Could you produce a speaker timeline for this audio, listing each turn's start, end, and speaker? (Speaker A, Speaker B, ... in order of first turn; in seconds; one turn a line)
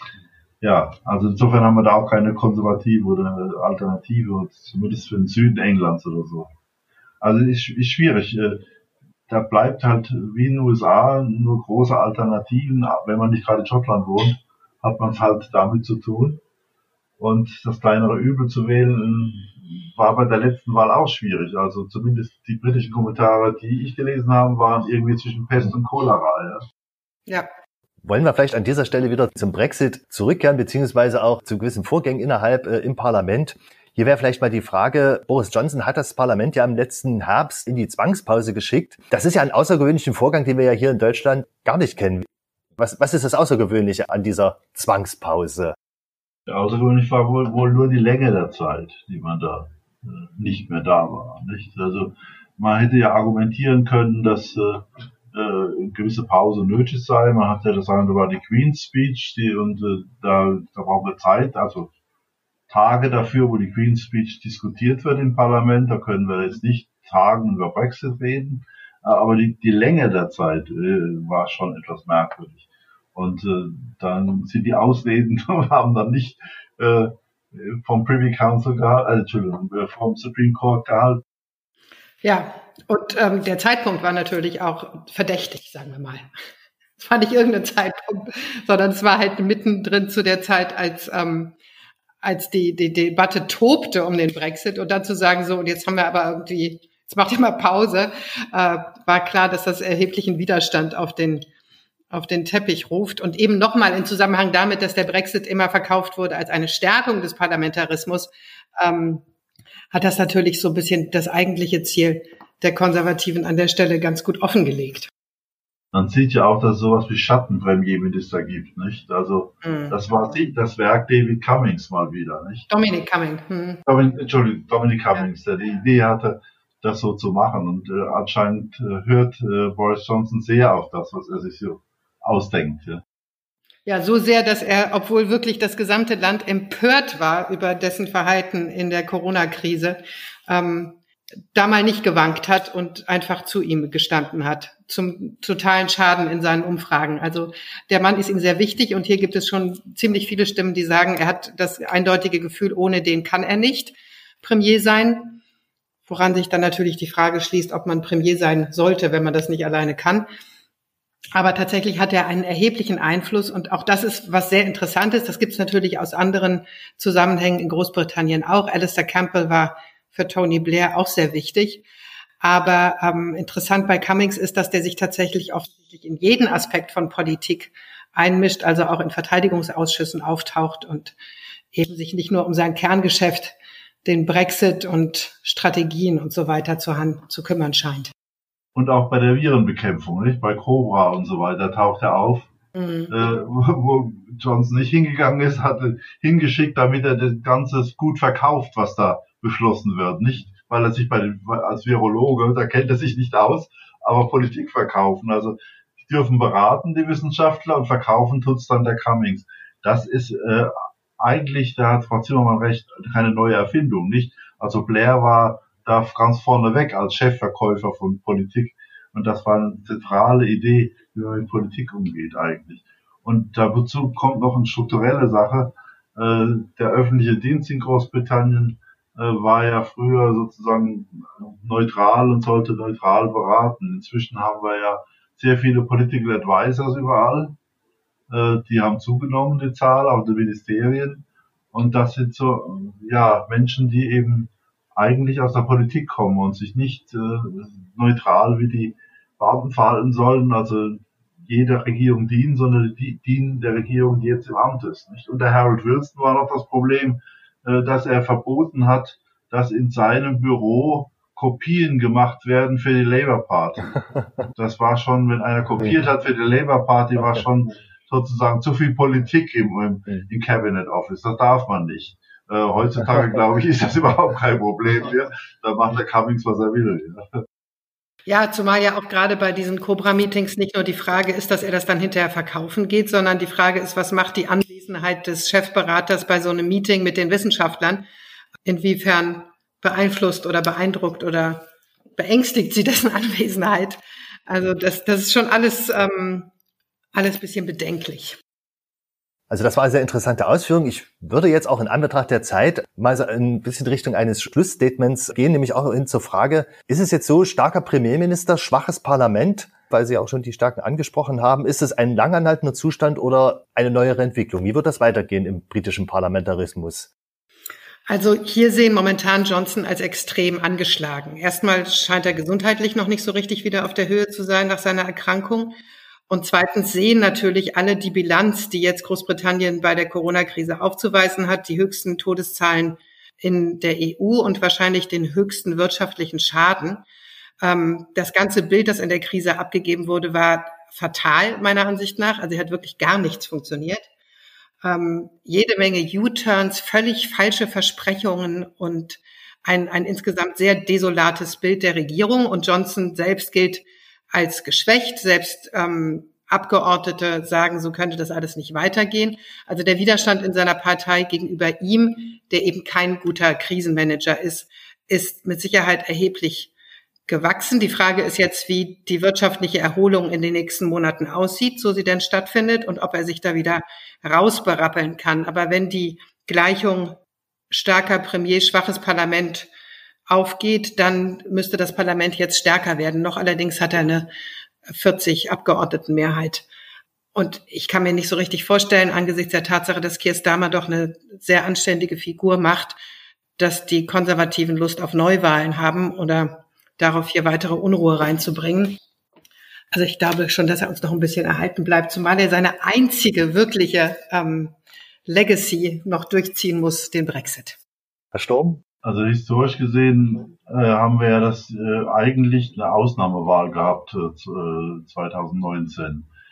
Speaker A: 0.6-6.5
Speaker A: 7.2-8.6
Speaker A: 9.3-16.4
Speaker A: 17.2-26.6
Speaker B: 28.0-45.7
Speaker A: 46.5-61.9
Speaker A: 62.7-72.6
Speaker A: 73.1-81.2
Speaker C: 82.2-86.3
Speaker C: 87.0-91.6
Speaker C: 92.2-101.5
Speaker C: 102.1-109.2
Speaker C: 109.9-115.1
Speaker A: 115.9-122.7
Speaker C: 119.6-120.0
Speaker C: 122.7-123.8
Speaker A: 123.9-133.0
Speaker C: 133.8-141.0
Speaker C: 141.5-155.4
Speaker C: 156.1-160.3
Speaker C: 161.3-171.8
Speaker C: 172.4-181.1
Speaker C: 181.7-188.1
Speaker A: 188.7-192.5
Speaker C: 192.8-193.1
Speaker A: 193.1-237.5
Speaker A: 238.3-264.0
Speaker A: 264.5-277.4
Speaker C: 278.2-288.1
Speaker C: 288.6-291.6
Speaker C: 292.2-296.5
Speaker C: 297.1-298.4
Speaker B: 299.5-317.1
Speaker C: 318.1-325.8
Speaker C: 326.3-337.0
Speaker C: 337.6-344.1
Speaker C: 344.8-366.7
Speaker C: 367.3-377.2
Speaker C: 377.7-379.7
Speaker C: 380.3-384.3
Speaker C: 384.9-386.7
Speaker C: 387.3-393.0
Speaker C: 393.6-399.0
Speaker C: 399.9-404.7
Speaker C: 405.2-407.8
Speaker B: 408.3-408.8
Speaker A: 409.0-416.3